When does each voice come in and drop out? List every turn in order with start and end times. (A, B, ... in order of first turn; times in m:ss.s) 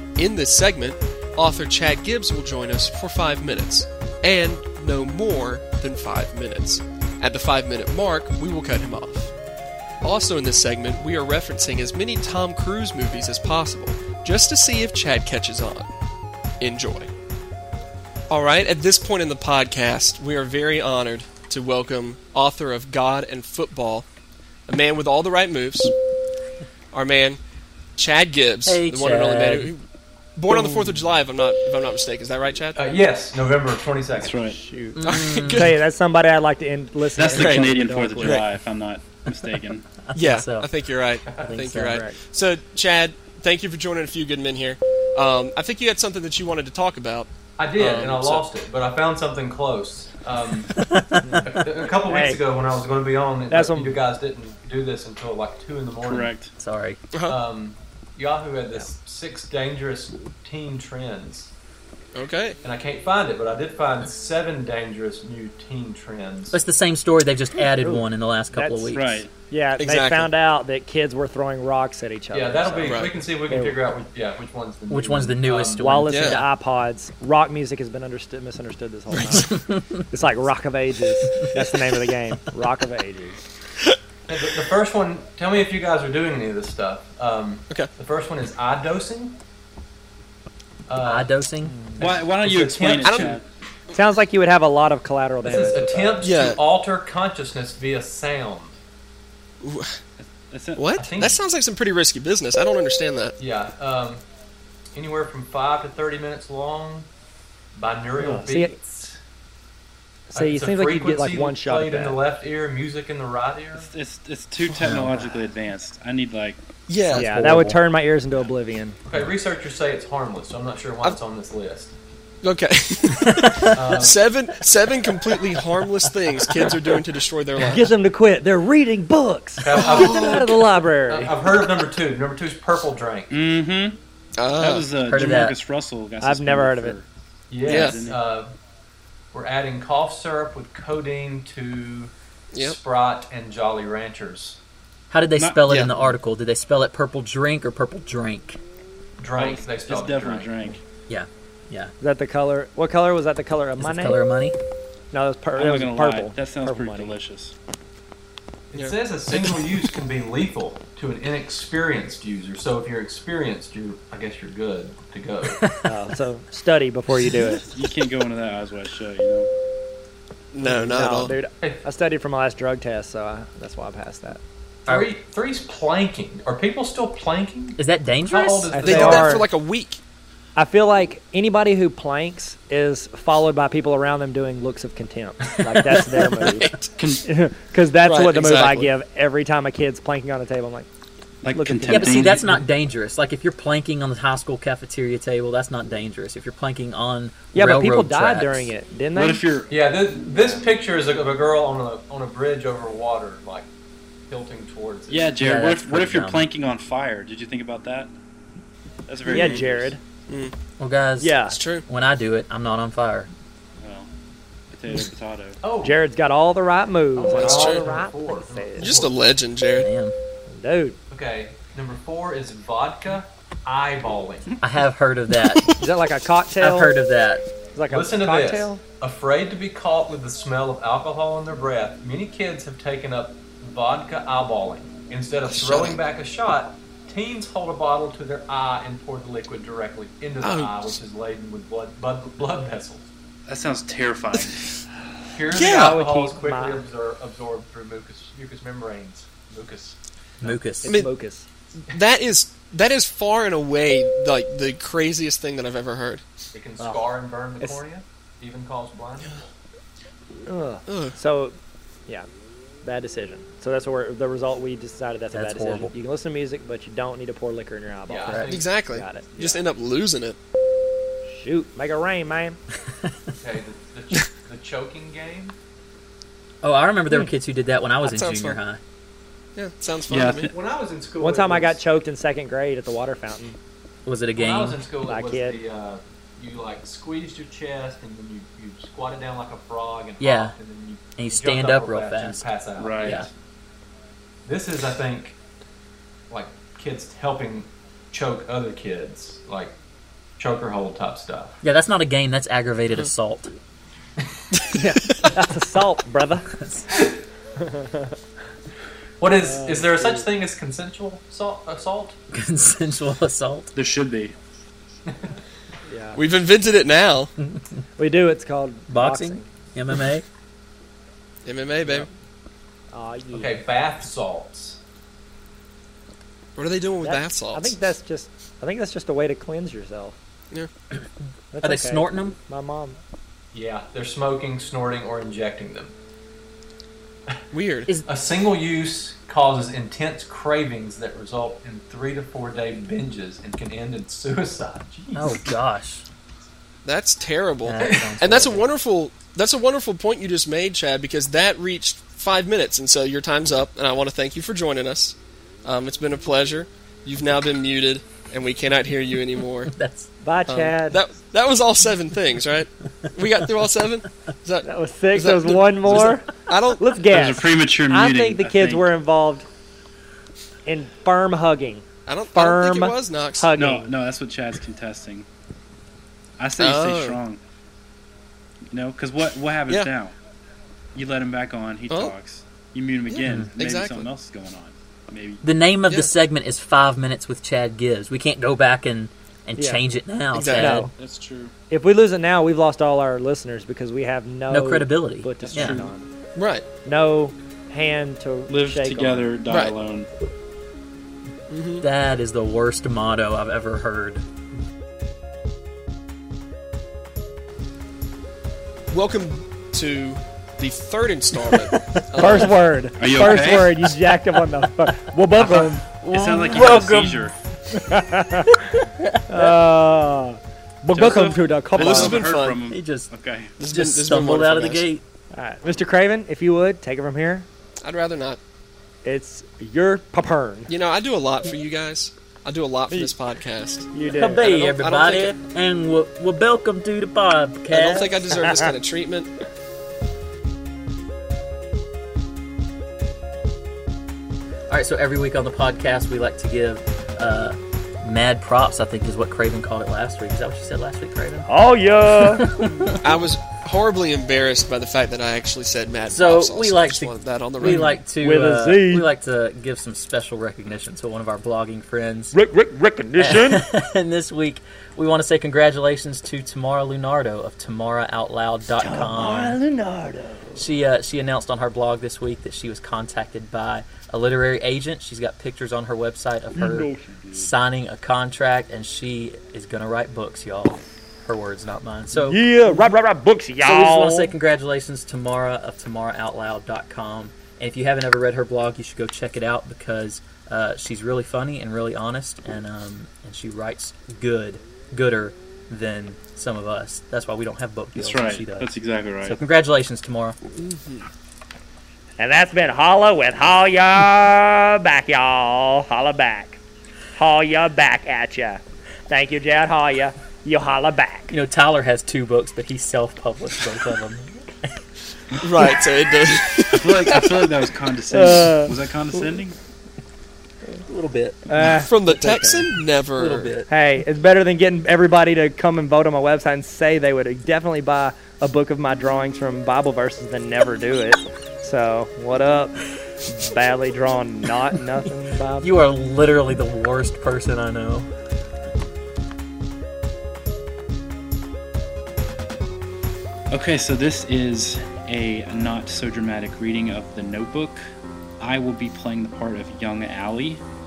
0:00.2-0:09.3 A
0:10.0-0:15.9 A
0:16.6-0:17.1 A
0:18.3-0:24.0 A
0:24.7-0:25.9 A
0:26.9-0:27.4 A
0:28.0-0:29.8 A
0:28.6-0:29.7 B
0:30.4-0:32.8 A
0:32.8-0:34.4 C
0:34.2-0:34.6 D
0:34.4-0:38.4 E
0:35.0-0:35.7 B
0:35.0-0:35.8 A
0:37.1-0:39.9 D
0:37.3-0:38.4 A
0:40.1-0:40.7 B
0:40.2-0:48.4 A
0:41.4-0:42.0 B
0:41.9-0:42.2 E
0:47.6-0:50.8 C
0:50.7-0:51.6 B
0:51.2-0:51.5 E
0:51.4-0:56.3 C
0:52.0-0:52.4 E
0:53.5-0:54.0 E
0:56.0-0:56.5 D
0:56.5-0:57.0 B
0:57.2-1:01.5 C
1:02.1-1:02.6 A
1:02.6-1:06.6 C
1:06.5-1:09.2 B
1:07.8-1:13.8 E
1:08.9-1:09.3 D
1:09.8-1:10.3 A
1:12.3-1:15.9 C
1:12.8-1:13.2 A
1:14.9-1:16.5 B
1:15.8-1:23.4 E
1:16.1-1:16.4 A
1:24.3-1:29.4 C
1:30.9-1:31.4 C
1:31.0-1:32.1 B
1:31.6-1:32.2 E
1:32.0-1:33.4 D
1:32.0-1:33.4 C
1:33.0-1:33.4 A
1:33.9-1:36.3 E
1:35.4-1:38.8 C
1:36.2-1:36.6 A
1:39.6-1:40.0 A
1:40.2-1:41.0 D
1:40.8-1:43.3 A
1:41.0-1:41.4 C
1:43.4-1:44.2 C
1:44.9-1:47.1 C
1:47.7-1:49.2 C
1:48.2-1:48.8 E
1:50.3-1:52.2 E
1:50.3-1:53.9 C
1:53.8-1:56.6 D
1:54.7-1:55.0 A
1:54.8-1:55.1 B
1:56.9-1:57.3 A
1:57.0-1:57.8 B
1:57.2-1:59.0 E
1:59.1-2:01.9 C
2:02.4-2:07.9 A
2:03.2-2:03.8 B
2:03.7-2:04.2 C
2:07.7-2:11.3 E
2:09.6-2:13.3 C
2:09.8-2:10.5 A
2:13.3-2:14.0 D
2:14.4-2:14.9 A
2:14.6-2:17.1 D
2:15.0-2:15.6 B
2:16.2-2:17.0 E
2:17.5-2:18.5 C
2:17.6-2:18.2 D
2:17.6-2:18.1 A
2:19.3-2:24.6 C
2:22.5-2:22.8 A
2:25.1-2:28.6 B
2:25.4-2:26.1 D
2:29.2-2:30.8 C
2:29.4-2:30.8 D
2:31.1-2:31.9 B
2:32.0-2:34.2 E
2:33.8-2:34.6 B
2:35.1-2:37.2 E
2:35.6-2:37.5 D
2:38.7-2:45.6 C
2:38.7-2:39.9 A
2:45.6-2:45.9 B
2:45.8-2:47.6 E
2:47.6-2:49.5 D
2:50.5-2:51.3 A
2:50.6-2:54.4 E
2:54.8-2:59.4 C
2:57.8-2:59.0 B
2:58.7-2:59.4 E
2:58.8-3:00.0 A
3:00.6-3:06.7 E
3:05.7-3:06.0 B
3:06.4-3:06.8 A
3:06.9-3:07.2 D
3:07.2-3:10.9 E
3:08.0-3:08.9 A
3:11.4-3:12.7 D
3:11.5-3:12.4 E
3:11.9-3:18.7 B
3:17.5-3:19.4 E
3:19.1-3:19.8 D
3:19.7-3:23.7 C
3:24.3-3:25.4 C
3:25.1-3:28.1 D
3:25.4-3:26.4 B
3:29.1-3:29.9 D
3:29.3-3:30.0 E
3:29.3-3:29.6 A
3:30.8-3:33.3 B
3:31.2-3:31.5 E
3:31.5-3:31.8 A
3:33.8-3:34.1 D
3:34.7-3:35.6 D
3:35.6-3:36.0 C
3:35.8-3:38.9 E
3:37.2-3:39.3 C
3:37.3-3:37.8 A
3:38.8-3:39.9 A
3:39.7-3:40.1 B
3:40.5-3:41.0 E
3:41.1-3:44.6 C
3:44.6-3:45.8 B
3:45.8-3:46.9 E
3:46.6-3:47.4 B
3:47.7-3:48.8 E
3:47.9-4:03.1 C
3:55.5-3:56.0 A
4:00.4-4:00.9 A
4:03.5-4:04.7 D
4:05.3-4:10.0 C
4:05.5-4:06.0 A
4:05.6-4:06.8 E
4:10.4-4:11.0 B
4:10.4-4:11.4 E
4:11.9-4:16.2 A
4:16.5-4:19.4 C
4:16.8-4:17.1 E
4:20.5-4:22.3 E
4:20.9-4:21.2 A
4:22.8-4:29.6 E
4:25.3-4:25.9 B
4:28.1-4:28.7 C
4:28.5-4:30.4 A
4:31.2-4:32.6 E
4:33.0-4:33.3 B
4:33.4-4:35.6 C
4:36.6-4:38.8 B
4:38.0-4:38.6 A
4:39.6-4:40.5 A
4:40.1-4:40.5 D
4:40.4-4:41.8 C
4:41.2-4:43.6 E
4:44.0-4:44.8 B
4:44.4-4:53.3 C
4:45.1-4:45.6 E
4:50.2-4:50.6 B
4:51.2-4:52.4 B
4:52.8-4:53.2 D
4:53.0-4:53.3 B
4:54.4-4:55.4 C
4:56.3-4:59.8 C
5:00.4-5:01.6 C
5:01.6-5:03.5 B
5:04.7-5:06.5 E
5:06.6-5:06.8 B
5:07.6-5:08.1 E
5:09.2-5:12.2 C
5:09.4-5:10.3 E
5:12.3-5:13.7 B
5:13.7-5:14.3 D
5:15.8-5:16.2 E
5:16.1-5:17.3 A
5:18.0-5:19.5 E
5:18.9-5:20.2 B
5:21.4-5:22.1 A
5:22.9-5:23.6 E
5:23.3-5:24.8 C
5:26.6-5:27.7 A
5:27.0-5:30.2 E
5:31.5-5:33.0 E
5:31.6-5:32.4 B
5:33.5-5:35.9 C
5:37.5-5:37.9 A
5:38.0-5:45.5 C
5:45.1-5:46.0 B
5:46.8-5:59.7 A
5:47.6-5:48.7 B
5:47.8-5:48.1 C
5:59.7-6:00.1 B
6:00.2-6:01.0 E
6:00.5-6:06.8 A
6:04.6-6:09.5 E
6:07.1-6:08.9 D
6:10.6-6:13.9 E
6:12.1-6:13.6 A
6:13.5-6:15.3 D
6:16.4-6:17.4 D
6:16.6-6:17.2 A
6:18.7-6:20.1 D
6:20.9-6:25.4 D
6:23.1-6:24.1 A
6:23.2-6:23.5 B
6:25.4-6:30.9 B
6:29.6-6:29.8 E
6:30.3-6:30.8 A
6:30.5-6:30.9 E
6:31.0-6:31.5 D
6:31.7-6:36.0 E
6:34.5-6:35.8 B
6:35.4-6:35.9 D
6:36.4-6:36.6 A
6:36.8-6:39.3 E
6:38.5-6:40.1 D
6:39.5-6:39.7 A
6:41.5-6:41.8 A
6:41.8-6:44.2 B
6:48.9-6:52.5 A
6:52.1-6:55.8 E
6:53.0-6:54.1 D
6:55.4-6:57.3 D
6:56.0-6:57.3 B
6:57.7-6:58.7 E
6:59.0-6:59.5 B
6:59.3-7:02.2 E
7:00.9-7:03.6 D
7:01.7-7:02.6 A
7:02.7-7:03.1 B
7:03.6-7:04.8 A
7:03.7-7:05.0 B
7:05.3-7:07.5 E
7:07.8-7:08.4 A
7:09.0-7:10.7 E
7:10.7-7:15.3 A
7:13.9-7:14.5 E
7:14.0-7:18.3 B
7:17.7-7:19.3 A
7:24.7-7:31.5 B
7:31.5-7:32.6 E
7:32.2-7:33.0 B
7:32.8-7:38.0 A
7:36.1-7:42.4 B
7:38.2-7:39.1 E
7:42.3-7:43.6 E
7:43.2-7:49.6 B
7:48.8-7:50.7 E
7:50.6-8:02.4 B
7:56.5-7:57.5 E
8:02.1-8:04.3 E
8:03.6-8:18.7 B
8:18.0-8:19.4 D
8:19.2-8:20.4 B
8:20.6-8:21.1 A
8:22.2-8:26.6 E
8:27.1-8:31.3 E
8:31.3-8:34.7 B
8:35.4-8:37.1 A
8:36.7-8:39.6 D
8:38.1-8:38.8 E
8:40.8-8:41.5 B
8:41.5-8:42.7 E
8:41.6-8:43.5 A
8:43.2-8:43.7 B
8:43.7-8:55.7 E
8:55.6-8:58.1 B
9:03.5-9:10.6 D